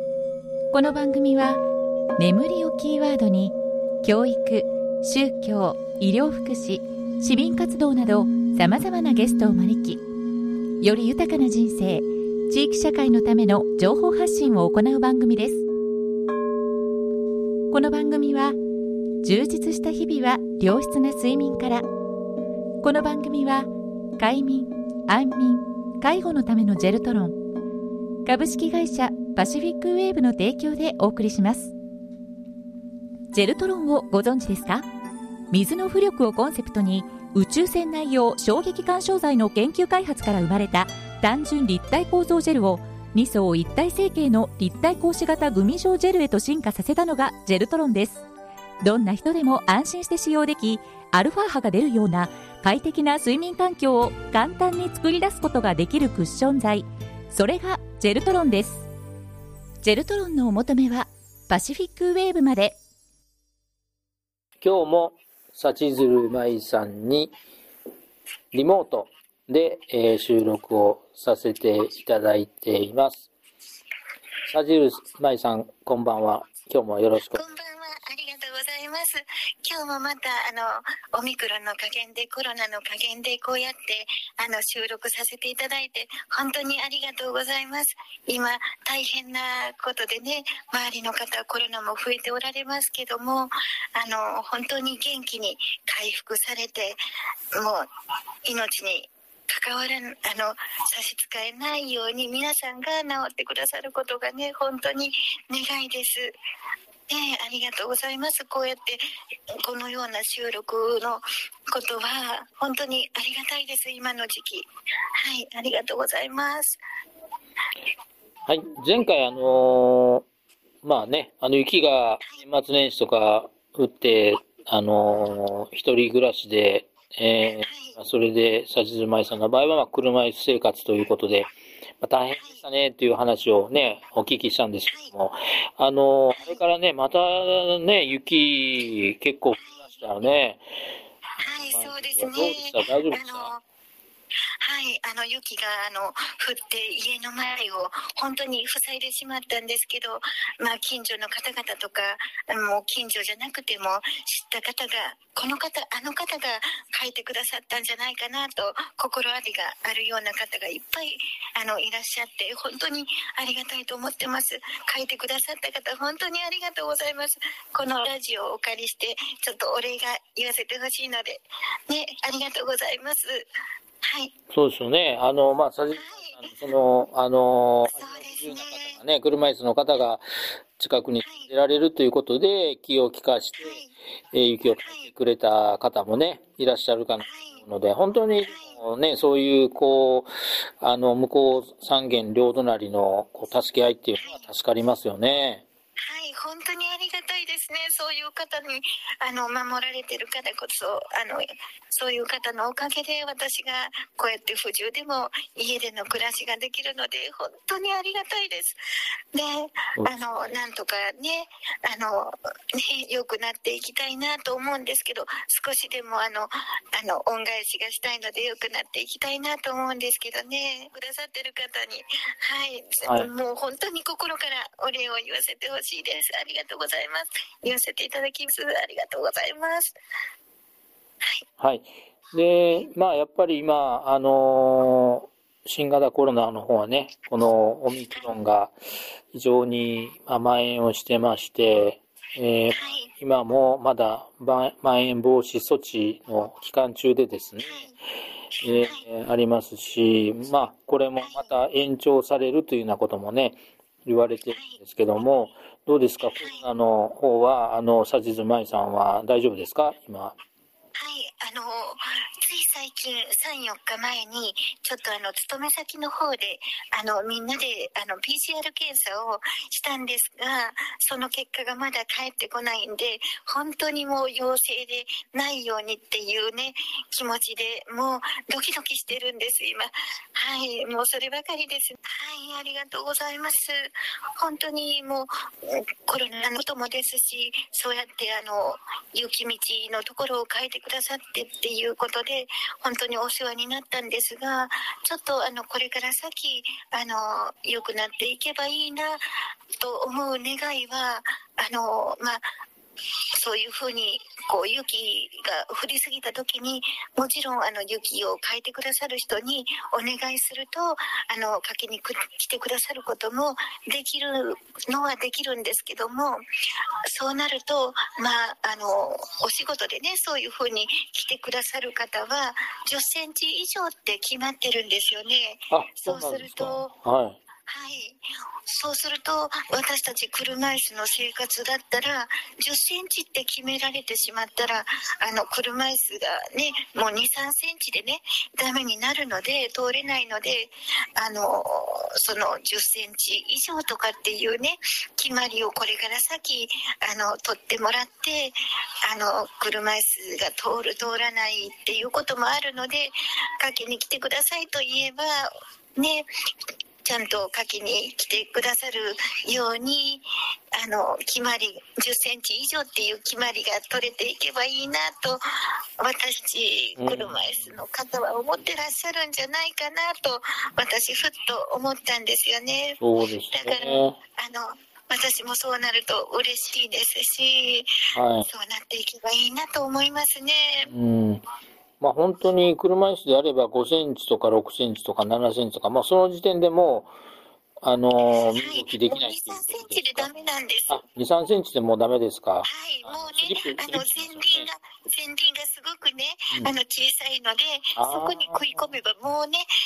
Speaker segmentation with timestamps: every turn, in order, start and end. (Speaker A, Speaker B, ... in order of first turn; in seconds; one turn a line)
Speaker A: 0.7-1.6
Speaker A: 2.2-10.0
Speaker A: 10.8-15.7
Speaker A: 17.7-18.6
Speaker A: 19.2-21.9
Speaker A: 22.8-27.4
Speaker A: 28.2-31.7
Speaker A: 33.3-34.9
Speaker A: 35.5-48.2
Speaker A: 48.8-58.9
Speaker A: 59.8-62.8
Speaker B: 64.6-67.3
Speaker B: 68.5-73.3
Speaker B: 74.5-77.5
Speaker C: 77.3-97.0
Speaker C: 97.6-97.9
Speaker C: 98.5-106.3
Speaker C: 107.1-109.0
Speaker C: 109.6-114.7
Speaker C: 115.2-116.8
Speaker B: 118.5-120.2
Speaker B: 120.8-140.6
Speaker C: 127.6-128.0
Speaker C: 132.4-132.6
Speaker C: 136.3-136.6
Speaker C: 139.6-140.0
Speaker B: 141.4-143.5
Speaker C: 141.4-143.6
Speaker C: 144.6-173.5
Speaker C: 174.0-174.3
Speaker B: 174.5-180.2
Speaker C: 175.9-176.5
Speaker C: 177.9-179.0
Speaker B: 180.8-183.8
Speaker C: 181.2-181.5
Speaker C: 183.6-183.9
Speaker B: 184.3-195.6
Speaker C: 184.8-185.1
Speaker C: 187.2-187.6
Speaker C: 188.4-188.8
Speaker C: 194.2-194.5
Speaker C: 196.0-208.8
Speaker C: 209.3-229.9
Speaker B: 210.0-210.6
Speaker B: 231.6-238.8
Speaker B: 239.3-247.9
Speaker C: 242.7-243.1
Speaker C: 247.6-248.0
Speaker B: 248.6-260.4
Speaker C: 248.6-249.1
Speaker C: 251.2-251.6
Speaker C: 254.5-254.8
Speaker C: 256.4-256.7
Speaker C: 261.0-299.2
Speaker C: 299.8-302.4
Speaker C: 303.4-316.4
Speaker C: 317.1-326.9
Speaker B: 325.7-327.4
Speaker C: 327.7-348.6
Speaker C: 349.1-356.3
Speaker C: 357.0-360.2
Speaker C: 360.8-365.4
Speaker C: 366.0-373.0
Speaker B: 367.0-367.5
Speaker B: 373.0-374.2
Speaker C: 373.5-377.9
Speaker B: 378.1-378.5
Speaker C: 378.4-380.9
Speaker B: 380.9-381.4
Speaker B: 382.0-387.1
Speaker B: 387.8-390.3
Speaker C: 388.6-391.0
Speaker B: 390.9-394.7
Speaker C: 392.6-399.7
Speaker B: 398.0-398.8